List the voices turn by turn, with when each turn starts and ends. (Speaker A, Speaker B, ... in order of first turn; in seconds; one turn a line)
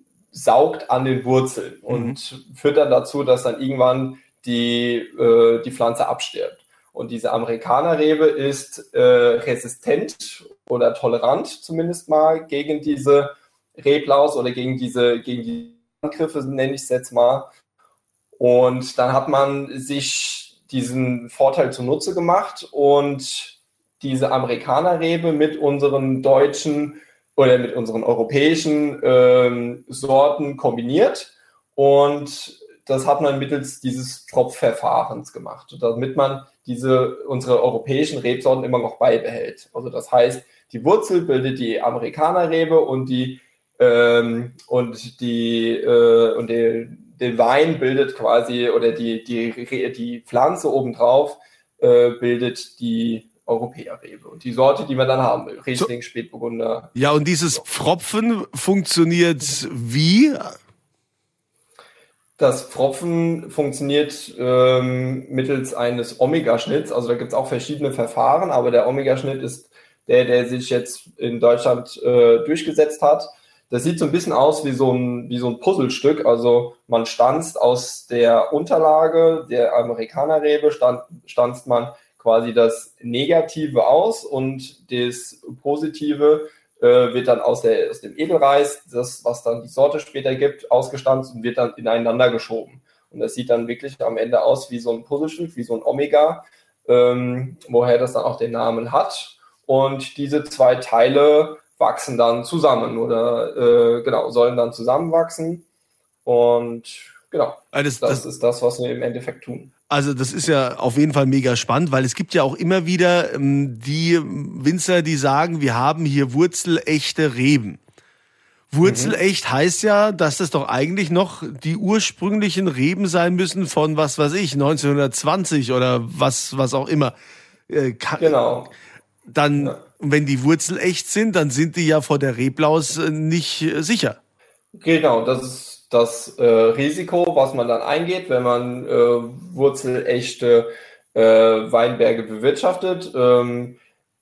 Speaker A: 0.3-17.5
Speaker B: 1.9-2.2
Speaker A: 18.4-56.9
Speaker B: 57.0-60.6
Speaker A: 62.4-105.7
Speaker A: 106.2-109.7
Speaker B: 107.7-108.2
Speaker B: 109.9-117.8
Speaker B: 118.7-127.2
Speaker A: 118.8-119.2
Speaker B: 127.7-128.4
Speaker A: 128.2-128.7
Speaker B: 129.3-134.2
Speaker A: 134.8-143.8